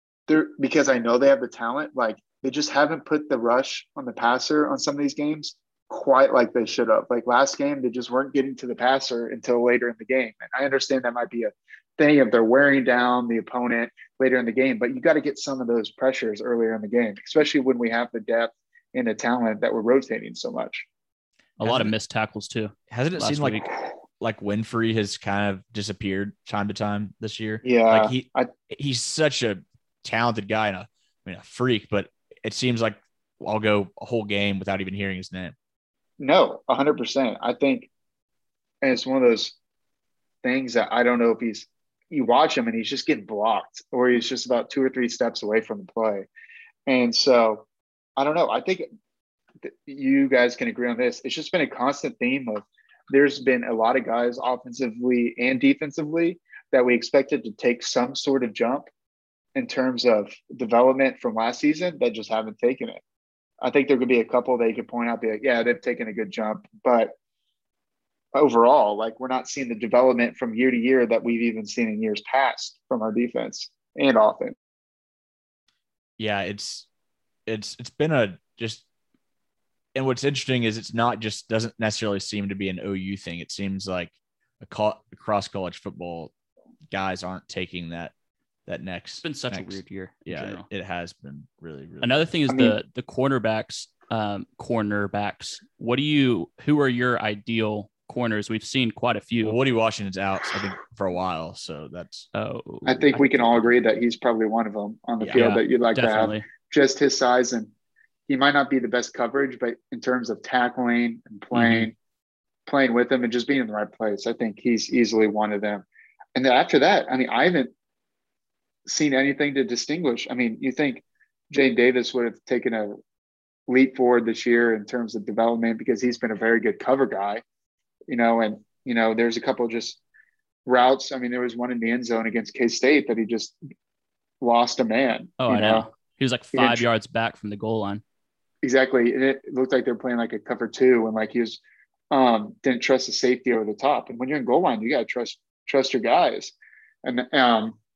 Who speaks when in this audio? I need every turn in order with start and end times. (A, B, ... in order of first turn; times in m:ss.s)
0:00.3-0:20.9 A
0:21.6-0:23.7 B
0:21.6-0:21.9 C
0:22.9-0:35.5 C
0:27.6-0:28.5 A
0:36.2-0:37.9 A
0:38.8-0:39.6 A
0:40.4-0:46.3 A
0:46.8-0:47.6 A
0:48.2-0:48.9 A
0:49.6-0:58.9 A
0:59.5-1:03.0 A
1:03.6-1:07.1 A
1:08.3-1:14.5 A
1:16.2-1:16.9 C
1:17.5-1:18.8 C
1:19.9-1:26.3 C
1:26.9-1:28.1 C
1:28.7-1:32.2 C
1:29.2-1:30.7 B
1:32.0-1:39.6 B
1:32.5-1:32.7 A
1:39.4-1:42.3 C
1:42.3-1:43.7 B
1:42.8-1:47.7 A
1:45.3-1:46.5 B
1:48.3-1:51.9 A
1:51.5-1:51.9 B
1:52.6-1:57.7 A
1:58.8-2:03.0 A
2:03.7-2:07.4 A
2:08.1-2:10.0 A
2:10.6-2:13.6 A
2:14.4-2:15.9 A
2:15.4-2:18.0 B
2:16.5-2:16.8 A
2:18.6-2:21.6 A
2:22.1-2:26.5 A
2:27.0-2:27.8 A